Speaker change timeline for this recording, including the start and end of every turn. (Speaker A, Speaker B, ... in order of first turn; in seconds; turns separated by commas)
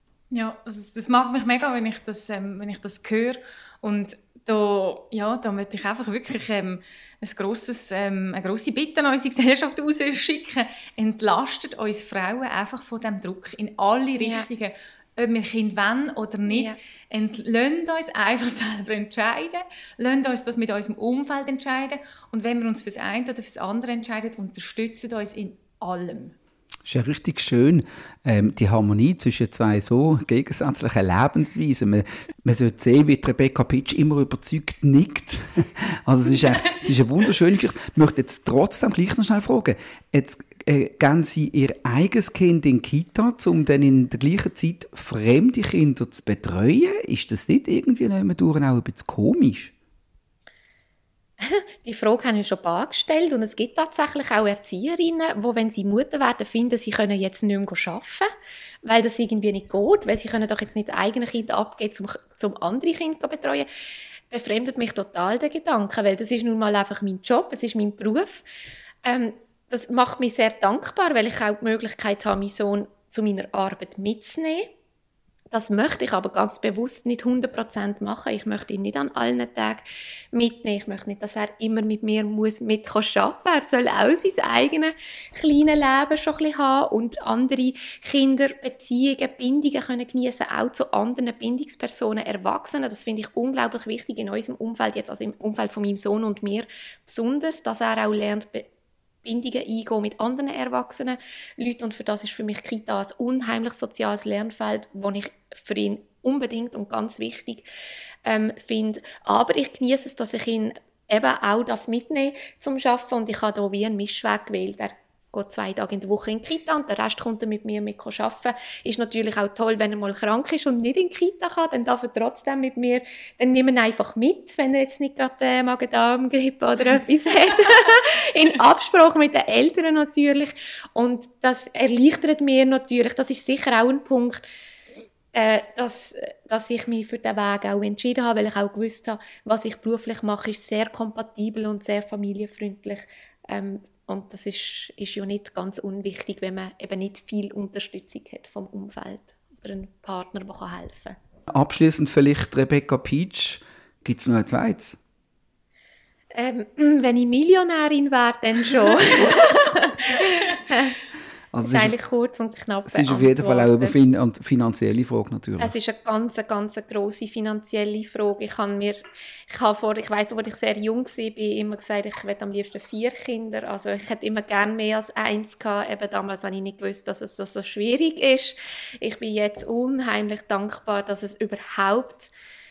Speaker A: 0.3-26.3, Speaker B: 14.2-14.4, Speaker B: 16.5-16.8, Speaker C: 26.9-49.7, Speaker B: 51.4-58.3, Speaker B: 58.8-63.7, Speaker B: 64.3-68.4, Speaker B: 69.0-74.7, Speaker B: 75.5-98.7, Speaker B: 99.2-107.6, Speaker B: 108.2-134.4, Speaker B: 135.3-151.2, Speaker C: 151.5-155.0, Speaker B: 156.3-161.0, Speaker C: 161.5-161.9, Speaker B: 161.6-164.0, Speaker C: 162.9-165.7, Speaker B: 165.6-182.3